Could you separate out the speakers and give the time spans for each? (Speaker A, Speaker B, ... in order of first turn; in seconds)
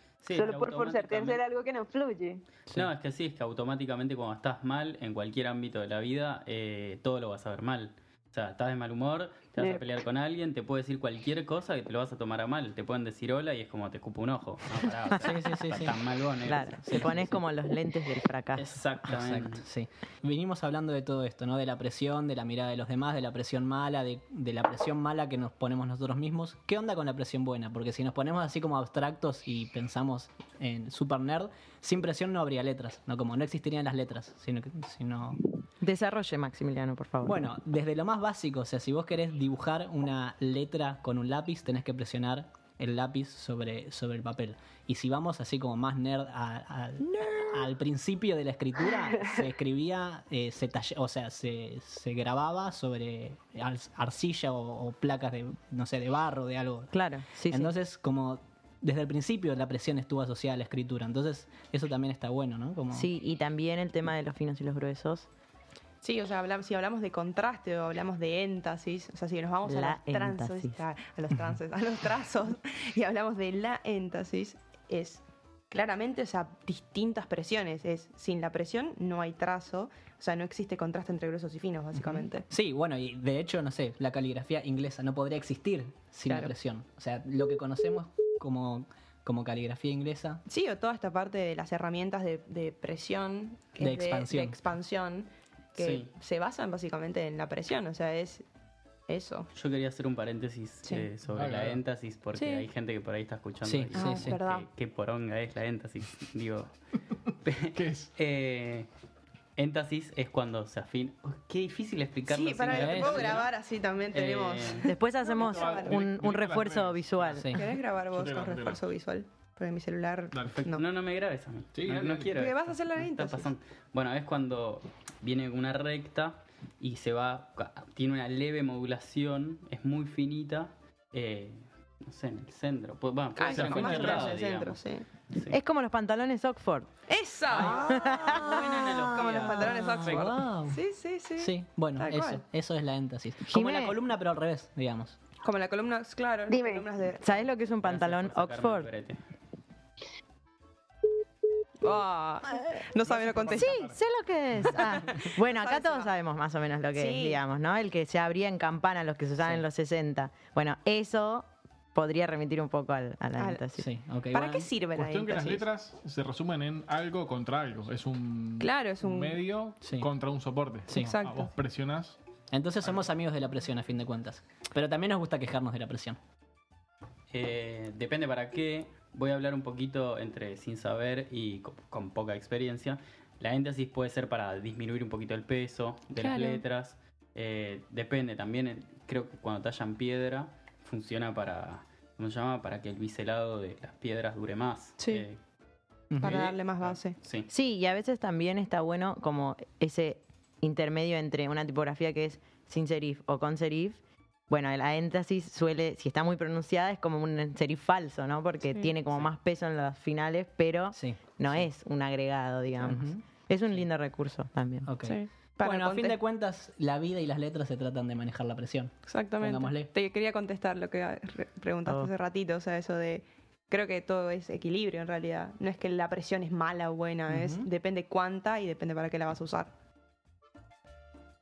Speaker A: 0.2-1.4, 2.7-17.1, 18.6-19.6, 95.8-96.1, 99.5-106.7, 107.4-108.9, 109.5-113.5, 114.1-114.9, 120.7-134.8, 135.3-135.6, 137.5-140.3, 147.8-149.2, 177.3-195.4, 197.2-197.5
Speaker B: 0.3-2.4, 9.6-9.8, 146.5-146.8
Speaker C: 15.2-16.0, 16.8-17.4, 19.1-35.4, 37.2-56.9, 57.5-63.1, 82.0-90.4, 93.8-94.6, 103.6-104.4, 112.7-113.4, 137.6-137.8, 139.4-140.8, 141.4-145.2, 163.8-164.7, 169.8-170.1, 170.9-171.1, 172.5-176.2, 196.1-196.5, 210.9-211.6, 212.8-213.2, 214.8-219.9, 227.3-227.7
Speaker D: 16.4-18.6, 35.8-37.4, 56.9-57.7, 62.9-65.3, 69.7-70.8, 114.9-117.5, 135.5-136.9, 137.7-139.0, 143.5-144.0, 147.2-148.9, 153.5-163.8, 197.5-214.9
Speaker E: 66.0-82.5, 86.2-86.5, 90.5-98.5, 99.1-99.5, 100.8-101.1, 102.3-102.6, 103.9-104.7, 112.3-116.0, 117.5-120.8, 122.3-123.5, 133.3-135.1, 137.1-142.4, 145.4-147.4, 151.8-153.9, 154.7-156.1, 156.9-157.4, 163.4-163.6, 164.3-165.7, 168.6-169.4, 170.9-171.5, 186.2-186.6, 195.0-195.3, 196.2-197.2, 215.0-216.2, 219.0-229.7
Speaker F: 101.3-101.8, 107.7-108.1, 115.4-117.4, 118.1-118.8, 120.3-120.6, 121.7-122.3, 133.6-134.0, 153.0-153.9, 164.9-172.2